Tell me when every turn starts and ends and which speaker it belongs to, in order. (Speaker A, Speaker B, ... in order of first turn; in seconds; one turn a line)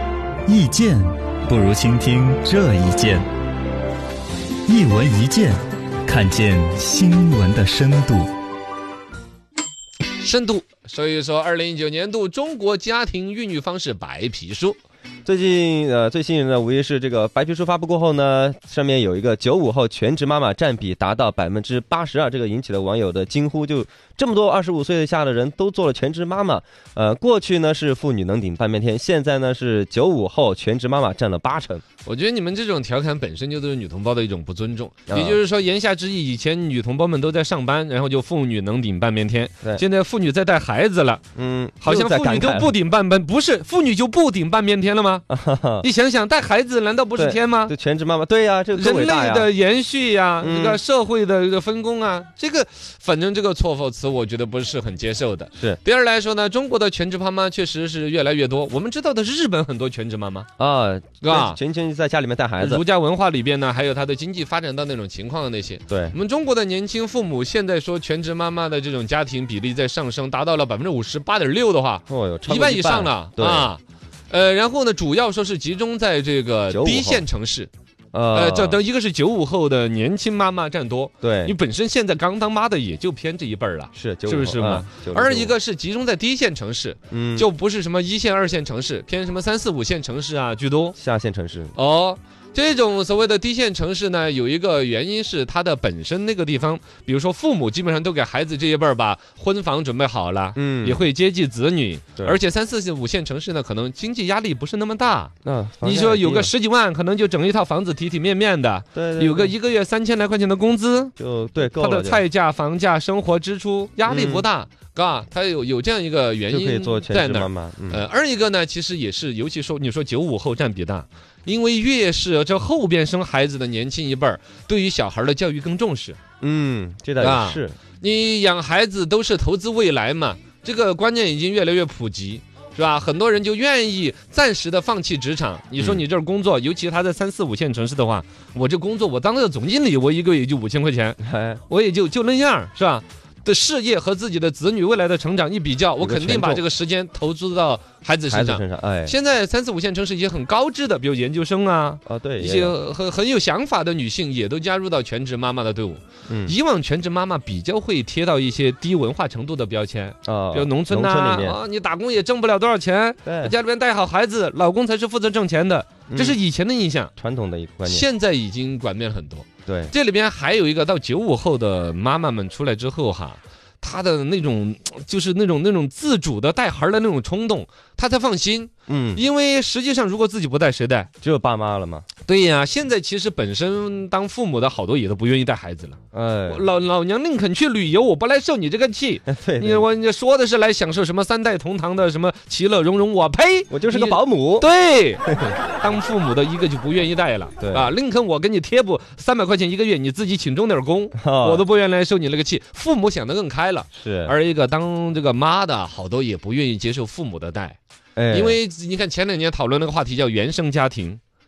Speaker A: 0.5-3.3
Speaker A: 4.7-8.3
Speaker B: 10.2-14.8
Speaker C: 15.2-31.8
Speaker B: 32.0-41.2
Speaker C: 35.1-35.4
Speaker C: 41.4-42.7
Speaker B: 41.8-45.2
Speaker C: 45.3-45.9
Speaker B: 45.8-47.7
Speaker C: 47.2-49.5
Speaker B: 48.7-60.5
Speaker C: 50.4-50.8
Speaker C: 60.6-62.8
Speaker B: 61.2-61.6
Speaker B: 62.6-77.7
Speaker C: 65.9-66.2
Speaker C: 72.1-73.7
Speaker C: 76.7-77.3
Speaker C: 78.1-78.8
Speaker B: 78.3-91.0
Speaker C: 81.2-81.5
Speaker C: 83.9-85.5
Speaker C: 87.1-87.5
Speaker C: 91.0-91.8
Speaker B: 91.8-126.2
Speaker C: 100.5-101.0
Speaker C: 105.5-106.5
Speaker C: 108.9-109.5
Speaker C: 111.2-112.2
Speaker C: 114.1-114.5
Speaker C: 116.5-118.0
Speaker C: 126.4-127.8
Speaker B: 127.2-167.1
Speaker C: 141.2-141.6
Speaker C: 146.0-146.6
Speaker C: 148.3-149.2
Speaker C: 152.1-152.8
Speaker C: 156.3-156.6
Speaker C: 160.2-161.6
Speaker C: 163.2-163.5
Speaker C: 166.1-166.4
Speaker C: 167.2-168.1
Speaker B: 167.8-181.1
Speaker C: 169.7-169.9
Speaker C: 178.9-179.2
Speaker C: 181.2-182.1
Speaker B: 182.3-207.8
Speaker C: 186.1-186.7
Speaker C: 189.3-189.9
Speaker C: 193.7-194.7
Speaker C: 195.3-195.5
Speaker C: 197.6-197.9
Speaker C: 201.2-201.7
Speaker C: 203.9-204.3
Speaker C: 208.2-208.6
Speaker B: 208.3-211.2